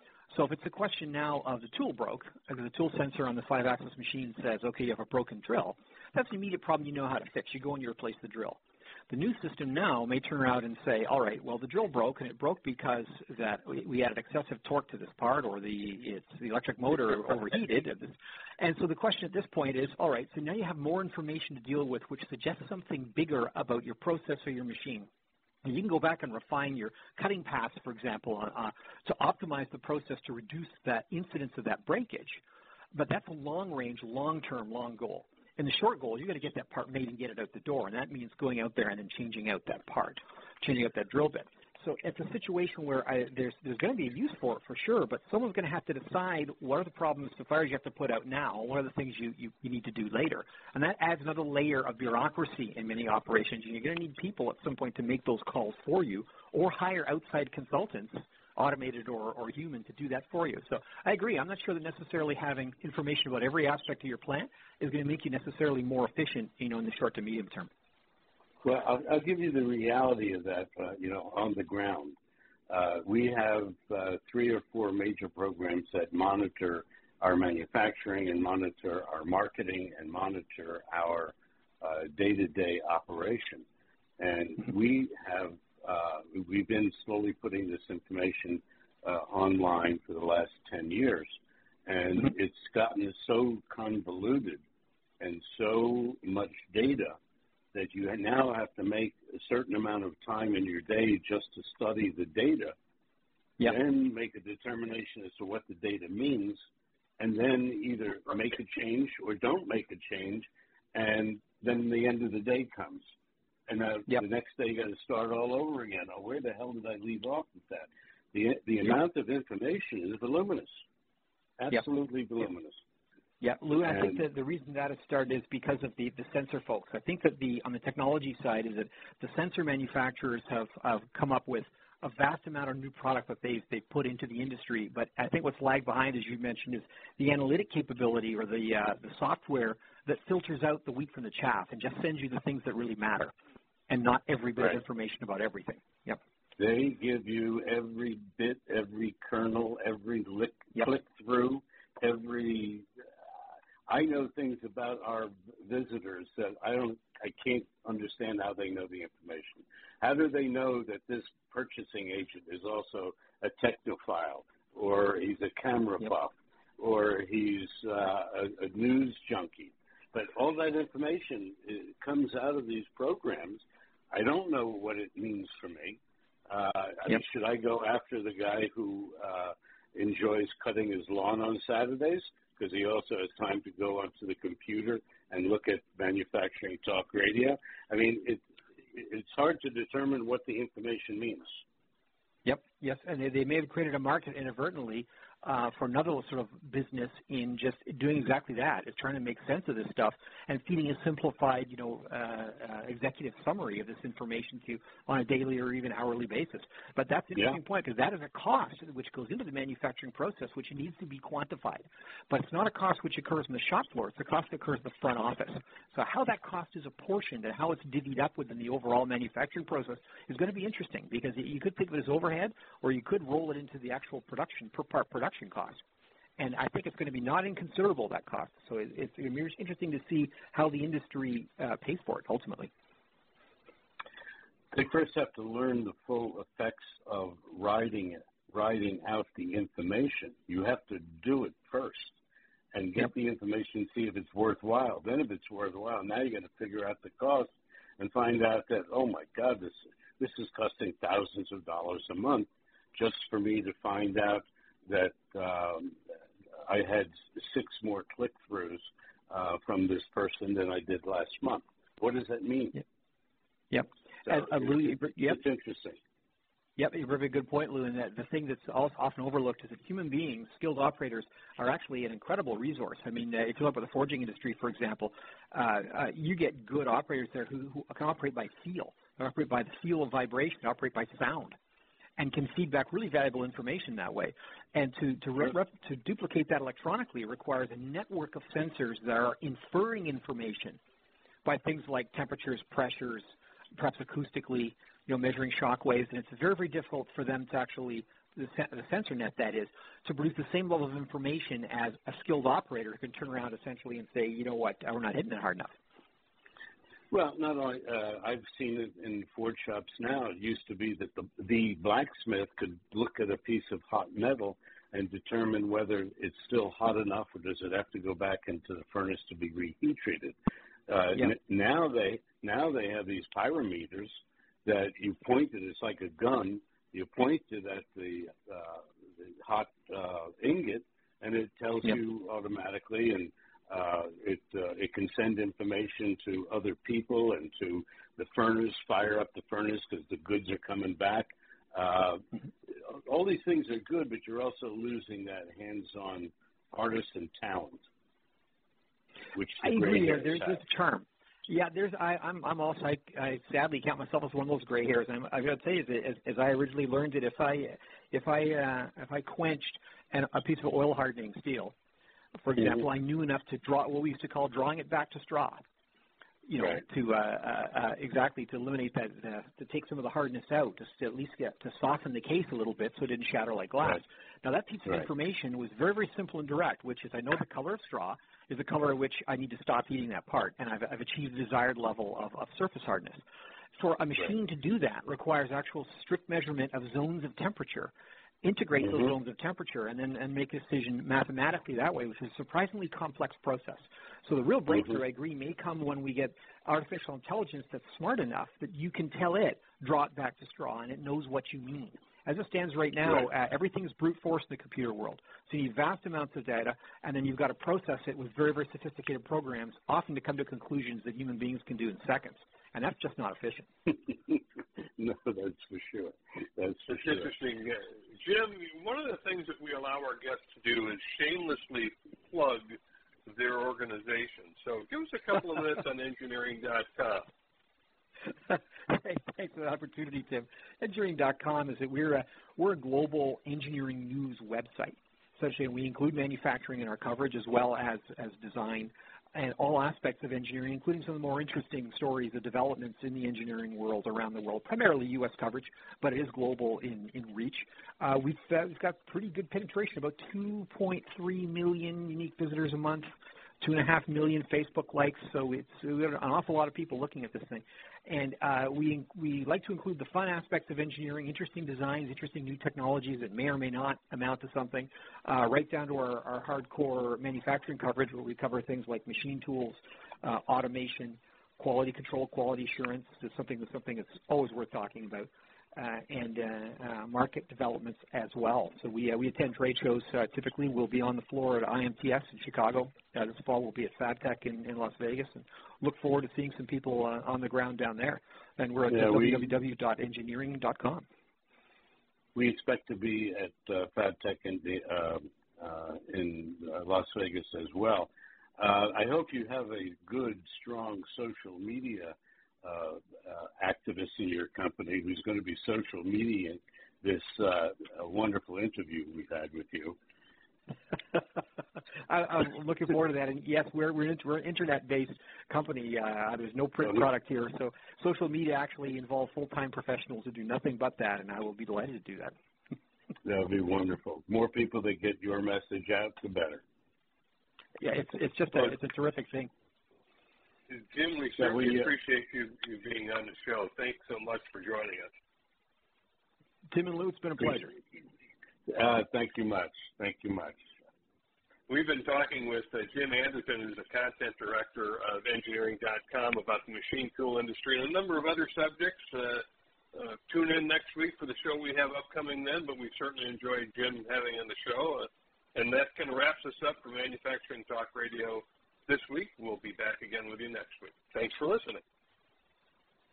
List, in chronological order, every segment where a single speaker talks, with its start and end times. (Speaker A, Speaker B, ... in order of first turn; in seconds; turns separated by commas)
Speaker A: 0.3-25.1, Speaker A: 25.6-32.4, Speaker A: 32.9-67.7, Speaker B: 68.6-72.2, Speaker B: 72.7-83.7, Speaker B: 84.2-91.3, Speaker B: 91.9-94.6, Speaker B: 95.2-97.2, Speaker B: 97.7-102.8, Speaker B: 103.6-106.6, Speaker B: 107.2-113.0, Speaker B: 113.7-120.8, Speaker B: 121.6-122.8, Speaker A: 123.4-143.3, Speaker B: 123.9-124.2, Speaker A: 143.9-146.2, Speaker B: 146.6-152.9, Speaker B: 153.9-191.6, Speaker A: 192.4-225.8, Speaker A: 226.4-232.7, Speaker B: 234.7-242.2, Speaker B: 242.7-256.0, Speaker B: 256.6-262.8, Speaker A: 263.7-265.4, Speaker B: 264.2-266.0, Speaker A: 266.8-281.6, Speaker A: 282.2-290.8, Speaker A: 291.4-305.7, Speaker B: 307.1-320.4, Speaker B: 320.9-347.8, Speaker B: 349.3-350.6, Speaker A: 349.6-361.7, Speaker A: 362.4-365.6, Speaker A: 366.5-383.2, Speaker A: 383.8-387.9, Speaker A: 388.4-413.7, Speaker B: 415.0-417.3, Speaker C: 416.9-427.3, Speaker A: 428.5-453.1, Speaker A: 453.6-491.1, Speaker B: 488.9-489.5, Speaker B: 492.4-510.0, Speaker A: 512.1-522.3, Speaker B: 523.2-526.6, Speaker A: 527.8-529.5, Speaker C: 530.7-535.1, Speaker B: 531.4-531.9, Speaker A: 536.7-537.8, Speaker B: 538.7-540.6, Speaker C: 541.7-561.8